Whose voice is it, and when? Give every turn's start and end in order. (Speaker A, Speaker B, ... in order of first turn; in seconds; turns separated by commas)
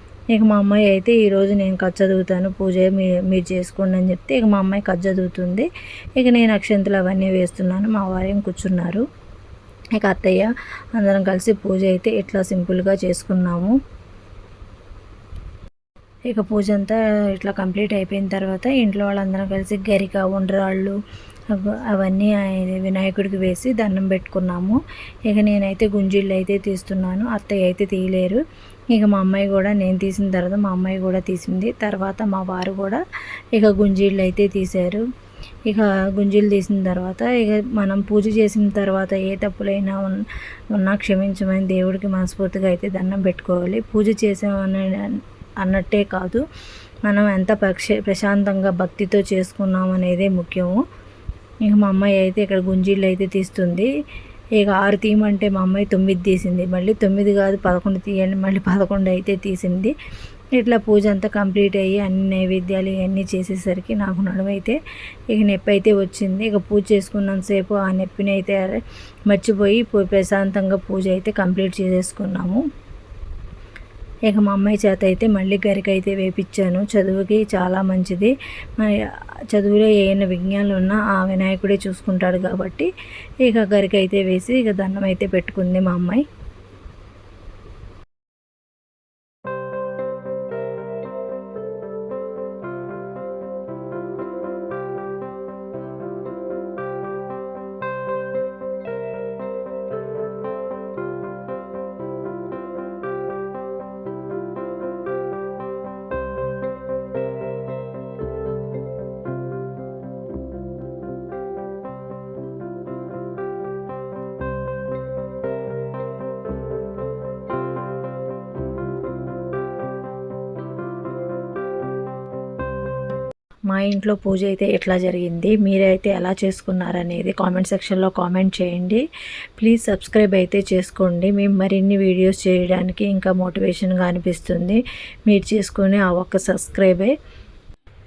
Speaker A: 0.3-9.1, Speaker A: 9.9-13.8, Speaker A: 16.3-21.0, Speaker A: 21.5-24.8, Speaker A: 25.3-28.4, Speaker A: 28.9-33.0, Speaker A: 33.5-35.0, Speaker A: 35.7-46.4, Speaker A: 47.1-50.8, Speaker A: 51.6-53.9, Speaker A: 54.6-59.9, Speaker A: 60.6-64.8, Speaker A: 65.3-72.6, Speaker A: 74.3-82.9, Speaker A: 83.4-86.2, Speaker A: 123.7-129.0, Speaker A: 129.6-137.1